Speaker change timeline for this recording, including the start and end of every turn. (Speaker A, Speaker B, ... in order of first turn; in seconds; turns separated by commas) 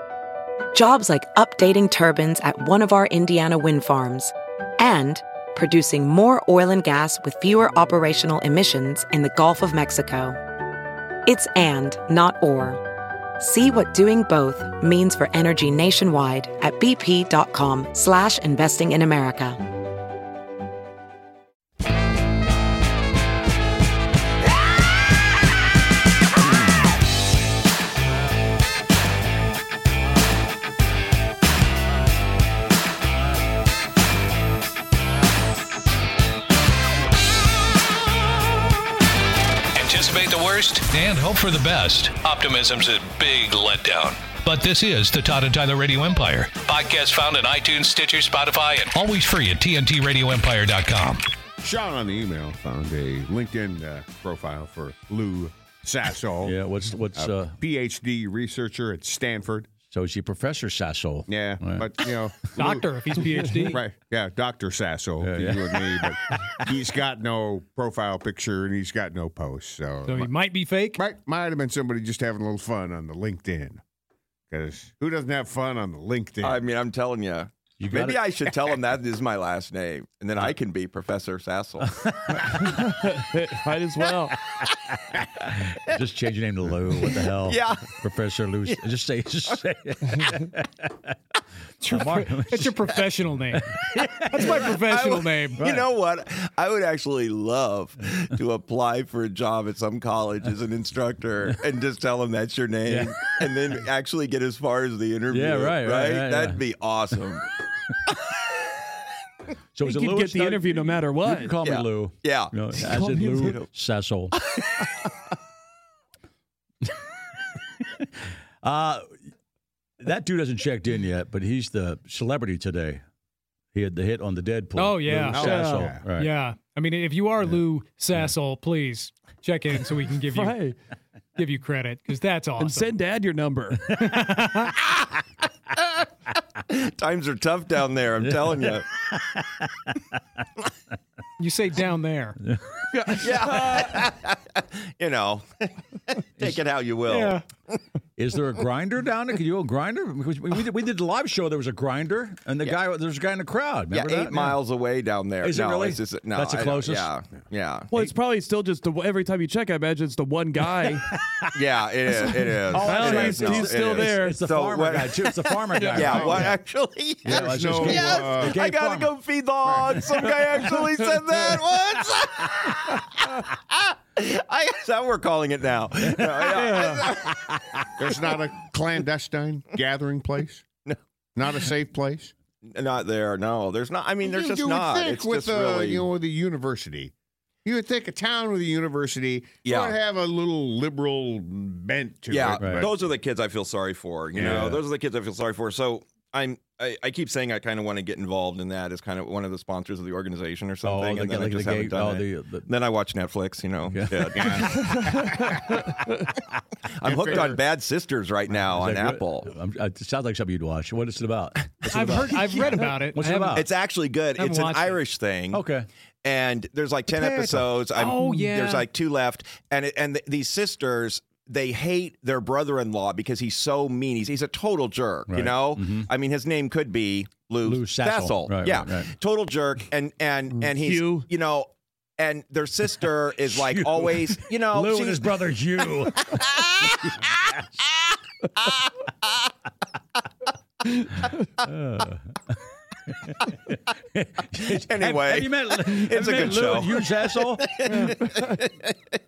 Speaker A: 0.7-10.4, Speaker A: 11.2-12.8, Speaker A: 13.4-19.6, Speaker B: 39.8-51.2, Speaker C: 51.6-56.6, Speaker D: 56.4-57.5, Speaker C: 57.1-59.7, Speaker D: 59.9-61.9, Speaker C: 61.3-70.3, Speaker E: 62.5-63.8, Speaker D: 65.2-66.6, Speaker E: 70.0-71.0, Speaker C: 71.0-73.8, Speaker C: 74.5-76.6, Speaker F: 76.4-81.9, Speaker D: 77.8-78.2, Speaker D: 81.8-82.9, Speaker G: 82.5-84.3, Speaker D: 84.6-91.2, Speaker F: 87.4-87.9, Speaker E: 91.8-93.6, Speaker D: 91.8-92.9, Speaker D: 93.5-94.6, Speaker E: 94.3-95.6, Speaker F: 94.5-107.5, Speaker D: 95.6-95.9, Speaker D: 102.9-103.1, Speaker D: 105.3-106.6, Speaker D: 109.7-114.3, Speaker G: 109.8-111.5, Speaker F: 111.6-112.5, Speaker G: 112.9-113.6, Speaker F: 113.3-113.6, Speaker D: 117.8-119.1, Speaker D: 120.0-123.0, Speaker D: 123.7-126.3, Speaker E: 124.8-130.6, Speaker C: 125.3-126.0, Speaker G: 125.4-125.9, Speaker G: 130.3-130.8, Speaker E: 131.4-132.9, Speaker G: 132.6-133.8, Speaker E: 133.9-134.8, Speaker F: 136.7-138.9, Speaker D: 138.2-140.0, Speaker E: 141.4-142.4, Speaker D: 142.4-142.8, Speaker G: 142.9-144.1, Speaker F: 143.2-147.8, Speaker E: 147.1-147.4, Speaker D: 148.2-154.6, Speaker F: 153.9-158.1, Speaker D: 155.4-157.1, Speaker G: 157.9-161.1, Speaker D: 161.1-161.5, Speaker F: 161.5-177.5, Speaker D: 162.1-166.6, Speaker G: 162.8-164.4, Speaker C: 165.9-166.6, Speaker D: 167.2-169.1, Speaker C: 167.2-168.6, Speaker C: 169.6-170.0, Speaker D: 176.0-177.3, Speaker C: 178.0-180.6, Speaker C: 181.3-182.3, Speaker F: 182.6-186.1, Speaker C: 184.2-187.1, Speaker C: 187.6-193.0, Speaker F: 189.6-190.0, Speaker F: 192.3-204.8, Speaker D: 192.6-192.9, Speaker D: 194.3-194.8, Speaker C: 194.3-194.8, Speaker D: 200.8-202.7, Speaker D: 203.9-204.8, Speaker C: 204.3-205.9, Speaker G: 204.7-206.0, Speaker F: 207.0-209.5, Speaker C: 207.0-207.6, Speaker D: 208.6-213.7, Speaker E: 211.9-213.6, Speaker F: 213.5-215.6, Speaker E: 214.4-215.0, Speaker D: 215.5-215.9, Speaker F: 216.2-235.3, Speaker D: 217.1-217.7, Speaker E: 217.9-218.8, Speaker D: 225.3-226.1, Speaker D: 227.6-229.1, Speaker G: 230.5-231.3, Speaker D: 233.4-237.3, Speaker F: 236.2-237.1, Speaker D: 241.6-248.1, Speaker F: 244.7-248.9